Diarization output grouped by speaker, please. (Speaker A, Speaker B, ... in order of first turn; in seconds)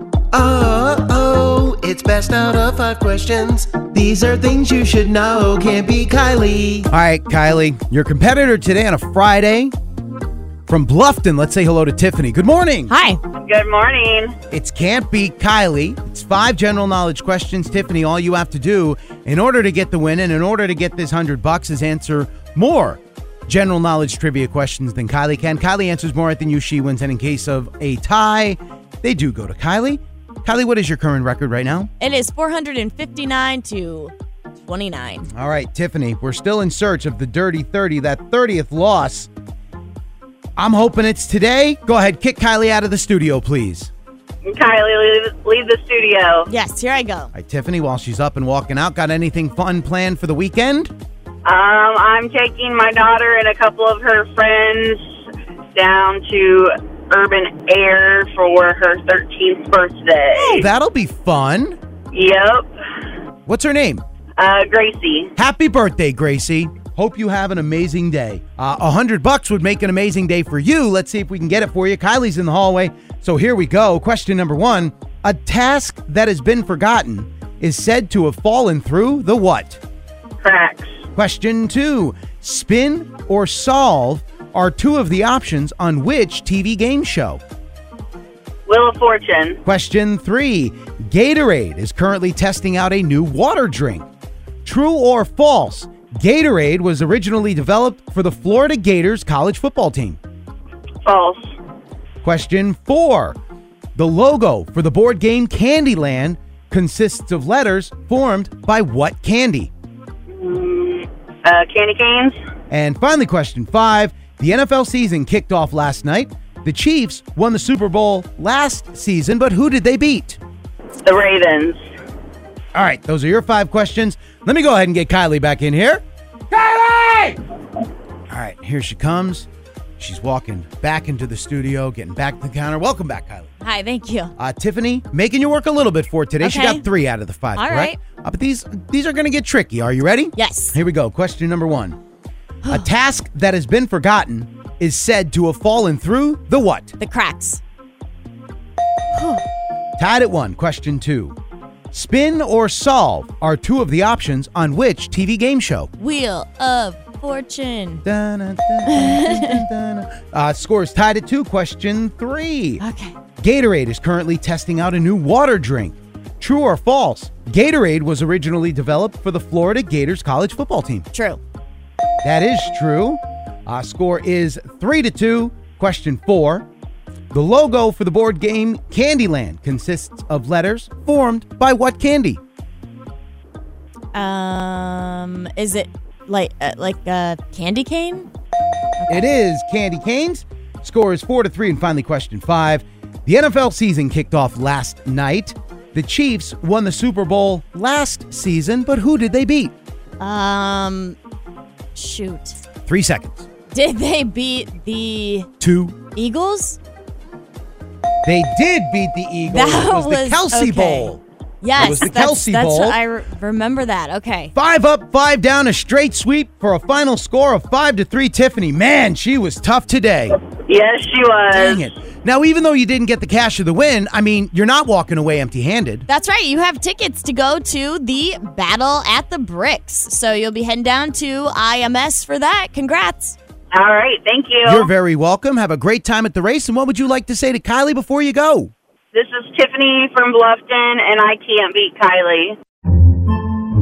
Speaker A: 0.3-6.9
Speaker B: 6.9-9.7, 10.7-12.9, 14.5-31.9, 35.3-39.3, 40.6-43.9, 47.3-50.9, 60.4-61.8, 63.5-64.0, 65.4-79.8, 81.2-87.4, 89.7-94.1, 94.6-100.2, 102.2-103.3, 104.0-109.7, 112.7-120.4, 122.7-127.4, 128.3-129.5, 130.0-133.5, 134.4-142.0, 142.7-146.9, 150.0-151.3, 151.9-155.9, 158.0-162.8, 163.4-171.1, 172.2-176.6, 177.3-182.4, 189.1-199.7, 202.8-203.4, 205.6-206.0, 208.2-211.2, 211.7-213.0, 214.5-220.4, 221.5-226.1, 234.6-238.7
Speaker C: 12.9-13.2, 32.0-35.3, 46.5-47.3, 133.6-134.3, 136.4-136.8, 137.5-138.0, 140.3-140.8, 147.0-147.6, 149.1-149.4, 156.0-158.0, 158.9-159.6, 162.8-163.2, 171.1-171.4, 184.1-188.3, 189.0-189.3, 200.2-201.2, 201.9-202.6, 203.7-205.5, 206.1-206.8, 209.4-214.5, 226.1-233.3
Speaker D: 13.3-14.3, 44.5-46.5, 51.4-55.1, 55.7-60.7, 62.1-62.7, 64.4-65.3, 80.4-80.9, 88.7-89.6, 101.0-101.5, 110.3-112.4, 121.0-121.8, 220.4-221.9, 233.7-234.9, 239.1-242.6